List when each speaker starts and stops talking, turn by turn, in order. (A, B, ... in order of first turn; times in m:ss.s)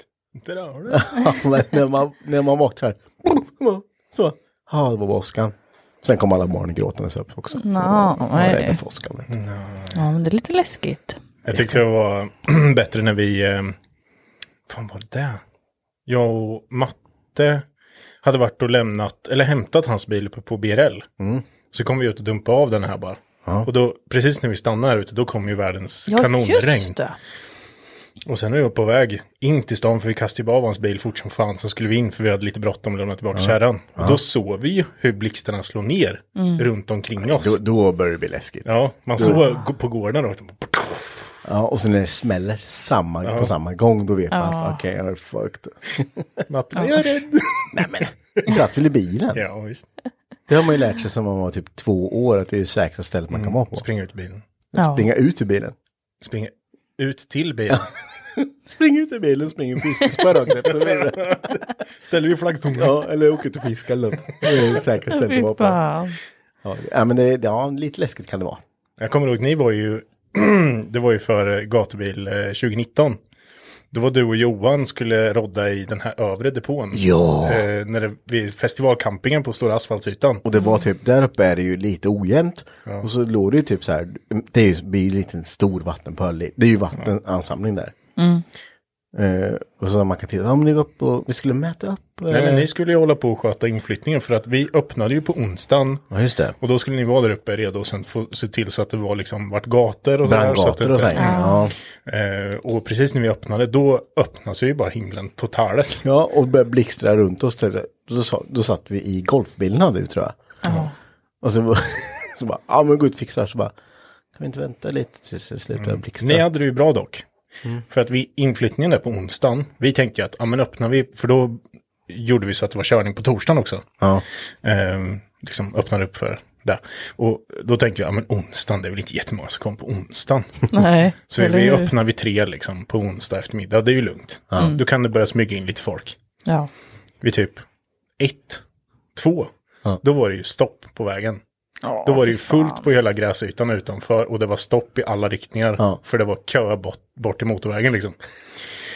0:00.4-0:01.2 A
0:00.9-0:09.3 B
0:07.6-0:08.8 C
0:09.3-0:10.0 A
0:09.9-0:11.2 C
0:11.5-0:11.8 B
0:11.5-0:13.8 A
0:14.7-0:15.4 A
0:16.1-0:17.6 A
0:18.2-0:21.1 A
0:21.2-0:21.5 B
0:21.7-0:27.0 A
0:26.1-0:27.2 C
0:28.3-0:37.6 A
0:33.4-0:34.2 B
0:36.4-0:36.7 C
0:37.2-0:39.4 B
0:38.6-0:41.3 A
0:39.2-0:39.6 C
0:41.4-0:46.4 B
0:43.2-0:43.5 A
0:44.3-0:44.8 C
0:46.5-0:48.6 A
0:47.7-0:49.4 B
0:49.3-0:49.9 A
0:50.5-0:53.8 B
0:53.3-0:54.4 A
0:54.7-0:55.8 B
0:54.8-0:55.1 C
0:56.2-0:57.9 A
0:58.4-1:01.6 B
1:00.6-1:03.0 A
1:02.8-1:05.8 B
1:05.1-1:06.2 C
1:06.6-1:08.6 B
1:09.0-1:13.2 A
1:13.9-1:20.4 A
1:16.9-1:17.7 B
1:20.4-1:27.9 B
1:28.2-1:28.4 C
1:29.1-1:32.7 B
1:32.3-1:36.0 A
1:36.1-1:36.6 B
1:36.6-1:41.4 A
1:40.2-1:41.7 B
1:41.2-1:41.7 C
1:42.0-1:46.0 A
1:46.0-1:50.8 B
1:50.6-1:51.0 C
1:51.4-1:53.8 B
1:54.4-1:56.5 B
1:55.8-1:57.2 A
1:57.9-2:03.9 A
2:04.0-2:04.2 B
2:04.6-2:16.2 A
2:10.7-2:11.9 C
2:17.2-2:17.6 A
2:18.2-2:18.6 A
2:19.2-2:19.5 A
2:20.0-2:21.4 A
2:21.8-2:22.9 C
2:22.0-2:28.2 A